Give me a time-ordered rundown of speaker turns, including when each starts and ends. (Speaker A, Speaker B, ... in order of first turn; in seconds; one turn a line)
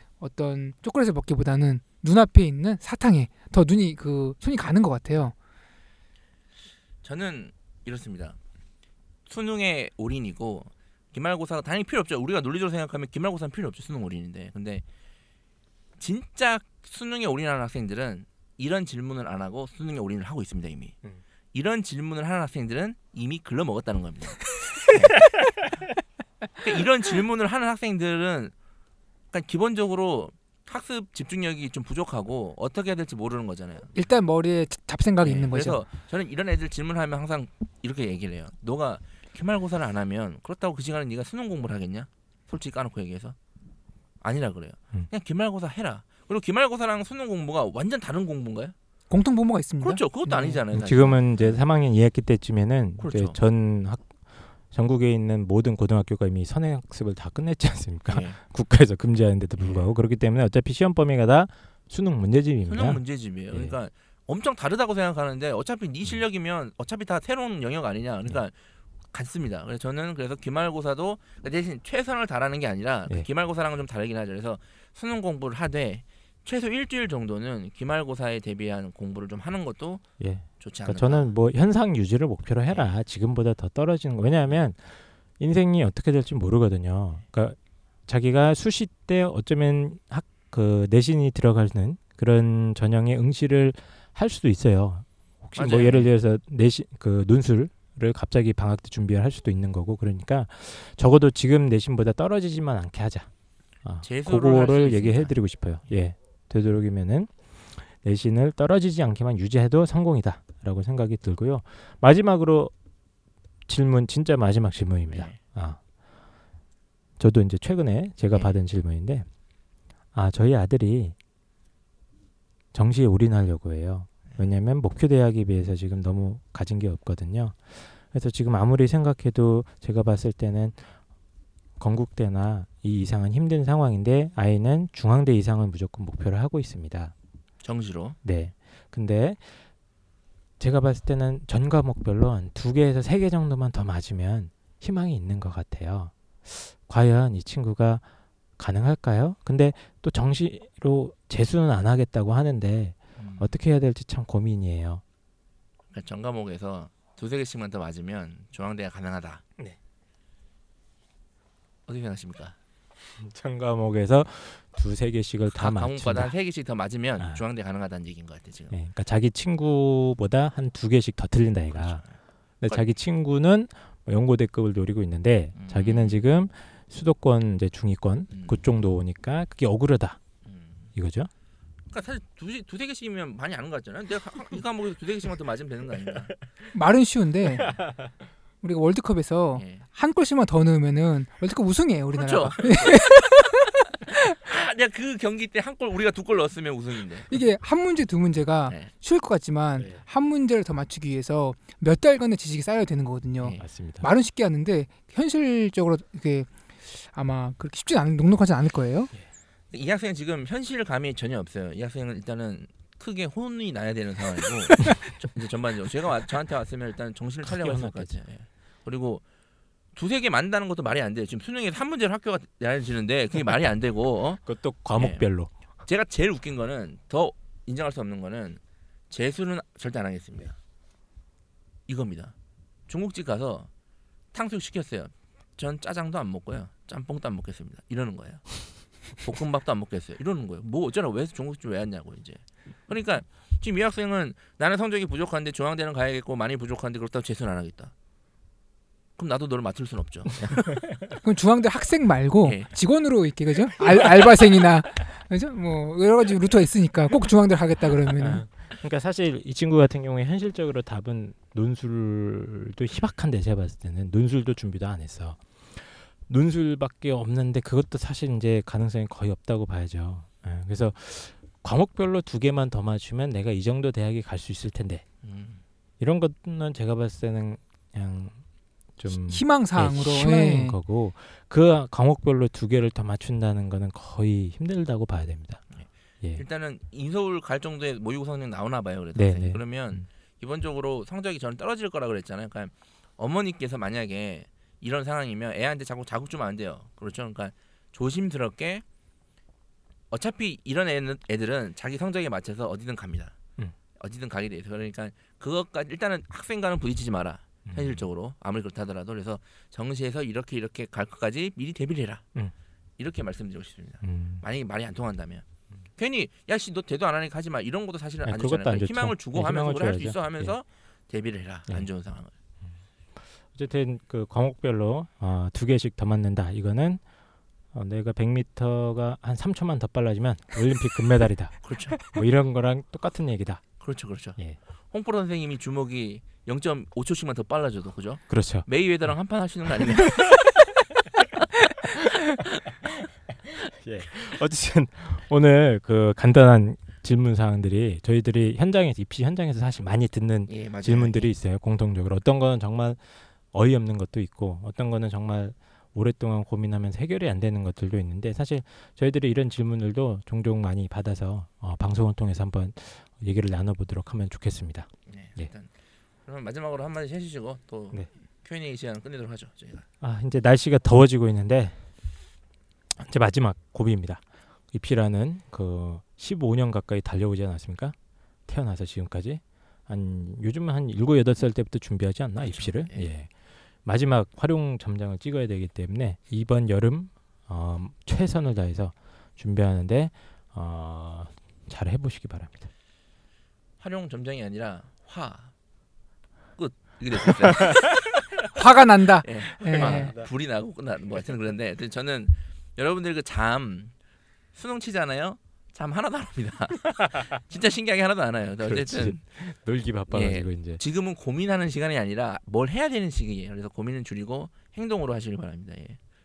Speaker A: 0.2-5.4
Speaker B: 7.0-8.4
Speaker B: 9.3-14.8
Speaker B: 16.0-21.0
Speaker B: 21.5-25.4
Speaker B: 26.6-28.5
Speaker B: 29.3-34.0
Speaker A: 34.0-35.8
Speaker B: 35.2-43.4
Speaker B: 44.2-48.8
Speaker A: 49.1-50.6
Speaker B: 49.8-51.6
Speaker C: 50.7-63.0
Speaker B: 53.0-53.4
Speaker B: 58.1-58.4
Speaker B: 59.6-59.9
Speaker B: 62.7-68.5
Speaker B: 69.1-80.0
Speaker C: 80.2-103.3
Speaker B: 80.6-81.3
Speaker B: 82.7-82.9
Speaker B: 95.6-96.1
Speaker C: 103.8-112.7
Speaker B: 104.0-105.3
Speaker C: 113.7-115.8
Speaker B: 115.1-115.4
Speaker C: 117.2-119.3
Speaker C: 120.1-121.2
Speaker C: 122.7-130.9
Speaker C: 131.8-137.1
Speaker B: 137.6-138.2
Speaker C: 138.2-139.5
Speaker C: 140.6-148.0
Speaker C: 148.6-155.0
Speaker B: 153.2-153.6
Speaker B: 155.9-159.4
Speaker B: 161.9-162.6
Speaker C: 163.1-166.3
Speaker B: 165.5-168.8
Speaker C: 168.7-172.0
Speaker B: 171.7-172.9
Speaker C: 172.6-180.2
Speaker B: 175.6-176.2
Speaker B: 178.3-178.6
Speaker B: 180.4-180.9
Speaker C: 180.9-181.3
Speaker B: 181.9-186.4
Speaker A: 186.7-187.8
Speaker A: 188.6-194.3
Speaker B: 189.6-189.8
Speaker B: 192.1-193.1
Speaker B: 194.4-197.3
Speaker A: 197.3-209.1
Speaker C: 203.6-204.1
Speaker B: 209.7-219.2
Speaker C: 217.5-218.2
Speaker B: 219.9-224.4
Speaker C: 224.4-225.5
Speaker B: 224.9-225.3
Speaker B: 225.9-230.6
Speaker B: 231.9-232.3
Speaker B: 232.9-233.7
Speaker B: 234.3-247.9
Speaker B: 249.2-250.9
Speaker A: 251.2-258.4
Speaker B: 252.4-252.7
Speaker C: 258.2-275.1
Speaker B: 275.2-275.6
Speaker C: 276.0-278.4
Speaker C: 279.0-285.6
Speaker A: 279.3-280.8
Speaker B: 285.7-298.8
Speaker C: 289.1-290.0
Speaker B: 300.1-303.4
Speaker B: 304.0-312.2
Speaker C: 307.7-308.1
Speaker B: 313.0-315.4
Speaker C: 314.0-314.4
Speaker B: 316.0-322.3
Speaker C: 318.2-320.5
Speaker C: 323.4-327.0
Speaker C: 327.7-333.7
Speaker B: 331.6-332.1
Speaker B: 333.8-334.4
Speaker B: 334.9-340.6
Speaker C: 338.3-339.1
Speaker C: 339.9-340.2
Speaker C: 343.4-365.5
Speaker B: 350.5-351.3
Speaker B: 365.1-365.7
Speaker B: 366.2-369.9
Speaker C: 370.0-371.9
Speaker C: 373.0-378.0
Speaker C: 378.5-383.3
Speaker B: 382.4-383.1
Speaker C: 383.9-392.7
Speaker B: 393.8-395.5
Speaker B: 396.6-398.5
Speaker A: 398.5-400.2
Speaker B: 399.2-403.9
Speaker C: 399.8-400.3
Speaker B: 404.5-409.2
Speaker C: 408.6-410.8
Speaker B: 410.1-416.0